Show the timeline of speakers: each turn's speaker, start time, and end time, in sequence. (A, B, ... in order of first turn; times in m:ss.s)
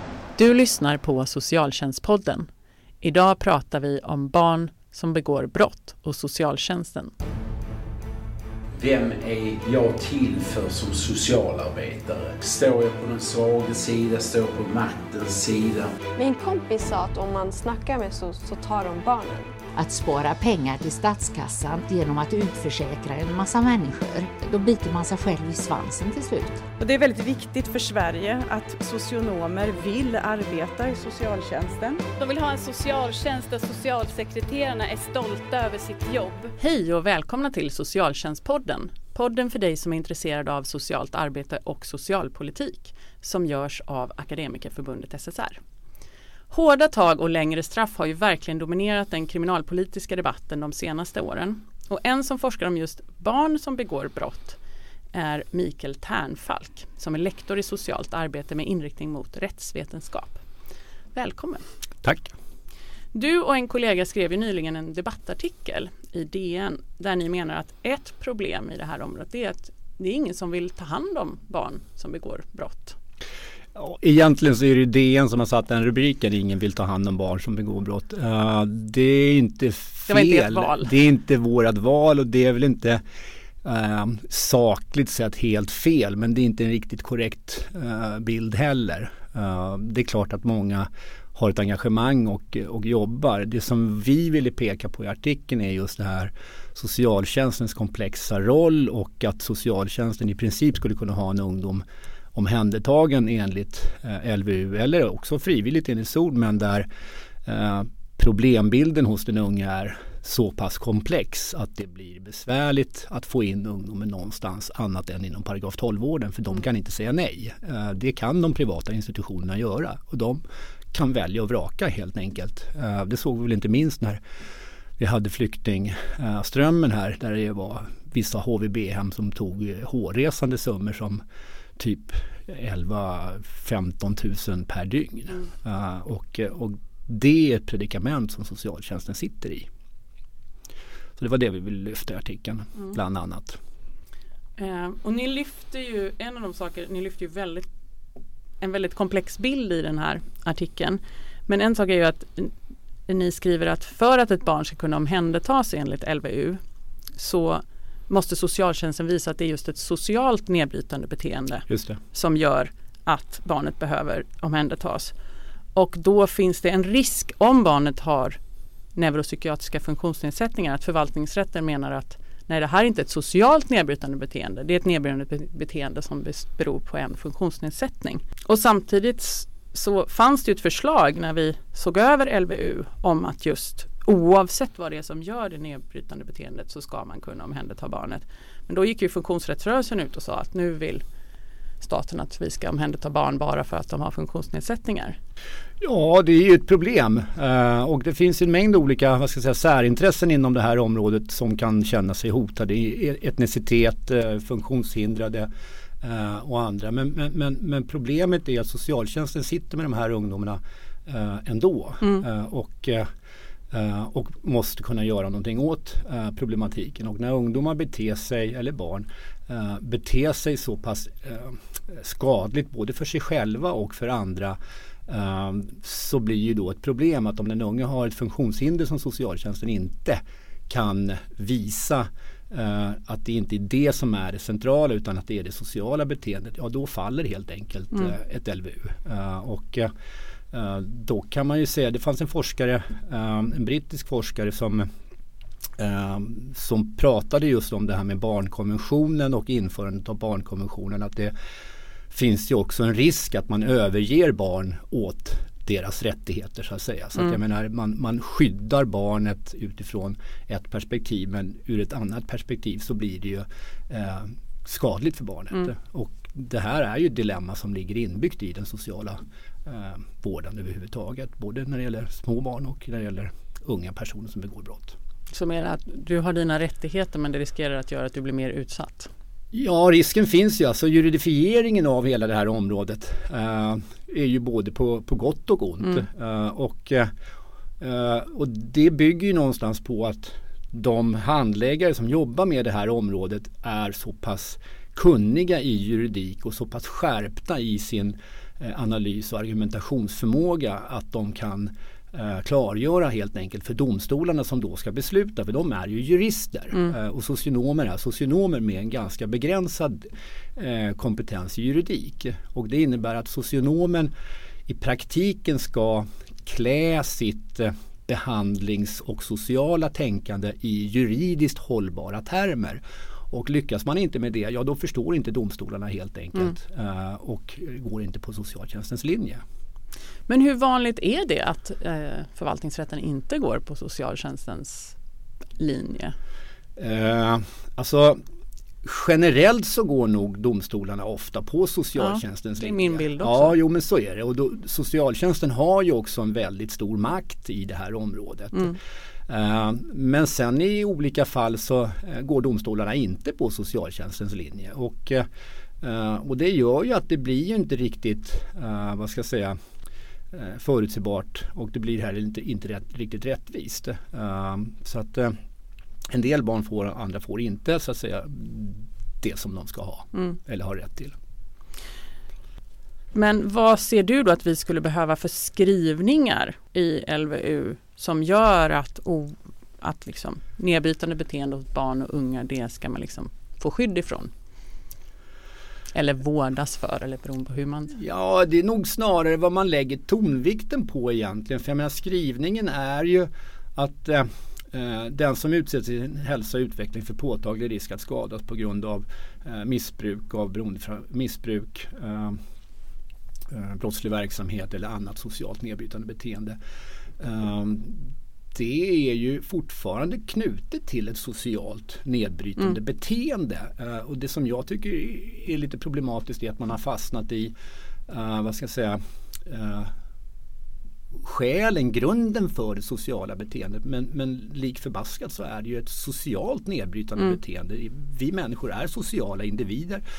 0:00.4-0:02.5 A
0:03.0-0:07.1 A
0:08.8-0:15.9 B
0:16.2-0:19.4 C
0:19.8-0:26.6 D
0:26.8-0:32.1 E
0:32.0-0:36.5 F
0:36.6-0:45.6 A
0:46.5-0:54.6 A
0:55.1-1:00.4 A
1:01.1-1:01.6 A
1:02.0-1:02.3 G
1:03.1-1:13.0 A
1:13.8-1:23.0 G
1:20.1-1:20.9 A
1:23.6-1:46.9 G
1:47.5-2:00.4 G
2:00.9-2:04.2 G
2:05.0-2:11.2 G
2:11.8-2:19.7 G
2:21.2-2:23.6 G
2:24.6-2:27.7 A
2:28.6-2:32.5 A
2:33.1-2:36.6 A
2:37.2-2:45.1 A
2:41.7-2:42.0 G
2:45.8-2:48.4 A
2:49.0-3:11.0 A
3:11.8-3:15.2 A
3:15.8-3:25.5 G
3:26.0-3:33.1 G
3:33.7-3:59.9 G
4:00.5-4:04.9 G
4:05.8-4:11.3 G
4:12.1-4:35.0 G
4:35.3-4:39.1 A
4:39.5-4:47.1 G
4:47.8-5:14.1 G
5:14.7-5:29.4 G
5:30.3-5:35.0 A
5:35.6-5:36.2 A
5:36.8-5:38.2 G
5:38.8-5:48.8 G
5:42.0-5:43.6 A
5:49.3-5:55.3 G
5:55.8-5:59.6 G
6:00.3-6:05.4 G
6:06.1-6:11.2 G
6:13.1-6:24.3 A
6:25.9-6:28.0 A
6:27.9-6:42.4 G
6:43.5-6:46.6 G
6:47.2-6:57.5 G
6:58.1-6:59.9 G
7:01.2-7:10.0 G